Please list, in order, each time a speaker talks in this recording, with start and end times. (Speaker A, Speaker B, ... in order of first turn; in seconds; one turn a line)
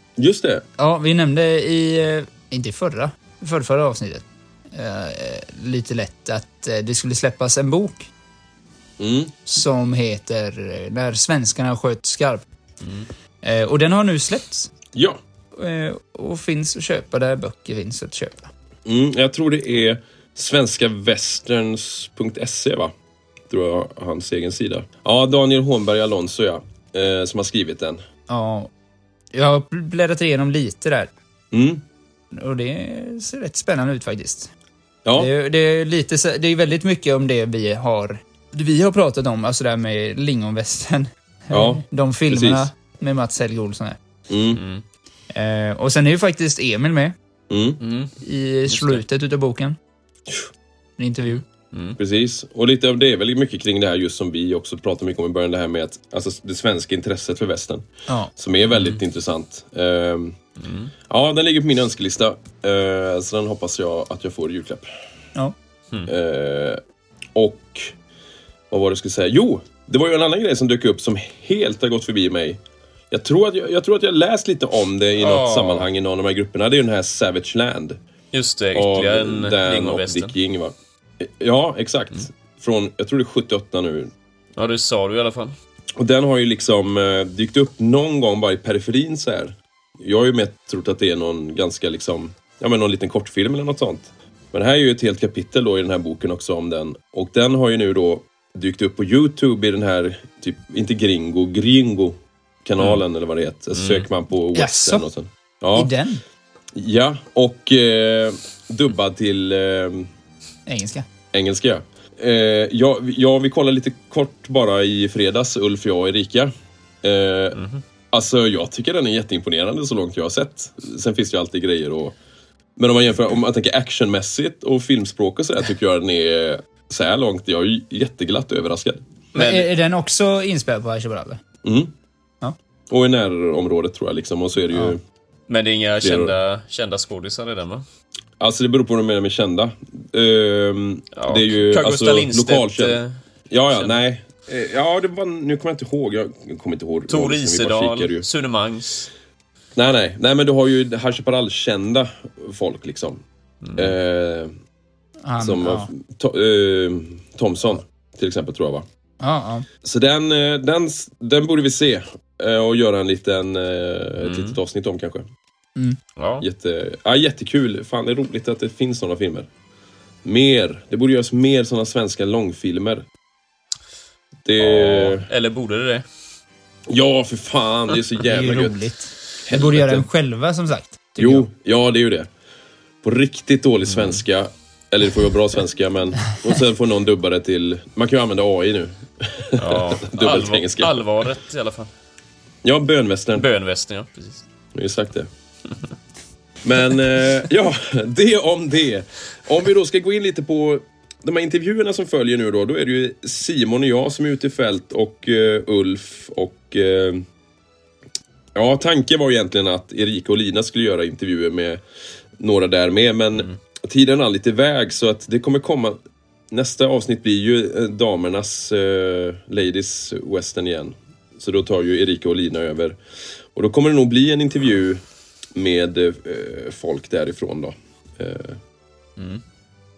Speaker A: 0.2-0.7
Speaker B: 0.8-8.1
Speaker A: 9.0-9.3
Speaker B: 9.5-12.4
Speaker B: 13.4-14.7
Speaker A: 14.9-15.2
Speaker B: 15.5-18.5
Speaker A: 18.9-22.9
Speaker A: 23.5-28.0
Speaker B: 28.3-28.7
Speaker B: 29.3-31.1
Speaker A: 31.5-31.8
Speaker B: 32.3-34.5
Speaker A: 35.0-35.3
Speaker B: 35.2-44.0
Speaker A: 41.5-42.7
Speaker A: 44.3-44.6
Speaker C: 44.5-44.8
Speaker B: 45.3-47.1
Speaker A: 47.5-47.8
Speaker C: 47.8-48.1
Speaker B: 48.2-49.8
Speaker C: 48.7-49.0
Speaker B: 51.0-51.4
Speaker A: 52.0-57.8
Speaker A: 58.4-60.4
Speaker C: 58.7-59.0
Speaker C: 60.6-60.9
Speaker A: 61.1-64.9
Speaker A: 66.1-66.8
Speaker A: 67.4-67.9
Speaker A: 68.7-72.6
Speaker A: 73.1-78.0
Speaker C: 75.2-75.9
Speaker C: 78.3-80.3
Speaker A: 78.7-84.1
Speaker C: 84.6-85.5
Speaker A: 86.0-105.9
Speaker C: 103.7-104.1
Speaker B: 104.5-105.1
Speaker B: 105.7-106.2
Speaker A: 106.8-110.1
Speaker B: 110.7-111.0
Speaker A: 111.3-116.5
Speaker A: 117.0-117.6
Speaker C: 117.6-117.8
Speaker A: 118.1-122.2
Speaker A: 122.8-129.0
Speaker B: 129.3-131.4
Speaker C: 129.4-129.7
Speaker A: 131.6-131.9
Speaker A: 132.9-135.0
Speaker C: 135.5-137.8
Speaker A: 136.0-136.3
Speaker A: 138.4-143.0
Speaker C: 141.2-143.2
Speaker A: 143.5-148.3
Speaker C: 147.1-149.1
Speaker A: 149.8-153.2
Speaker C: 153.6-153.9
Speaker A: 153.8-154.5
Speaker B: 155.2-155.9
Speaker A: 155.4-158.9
Speaker B: 159.2-159.7
Speaker A: 159.8-165.2
Speaker C: 164.2-164.6
Speaker C: 166.2-166.4
Speaker A: 166.4-169.5
Speaker A: 170.2-173.1
Speaker A: 174.4-175.3
Speaker C: 174.6-176.1
Speaker A: 176.9-178.8
Speaker B: 178.2-181.5
Speaker A: 179.5-180.1
Speaker A: 181.2-182.3
Speaker A: 183.0-191.0
Speaker C: 183.9-184.2
Speaker C: 189.6-191.9
Speaker A: 192.6-193.4
Speaker C: 193.4-194.4
Speaker A: 194.7-195.3
Speaker A: 196.6-207.2
Speaker A: 208.6-211.8
Speaker A: 212.4-216.0
Speaker A: 216.5-223.0
Speaker A: 223.6-225.0
Speaker A: 225.6-228.6
Speaker C: 229.2-229.4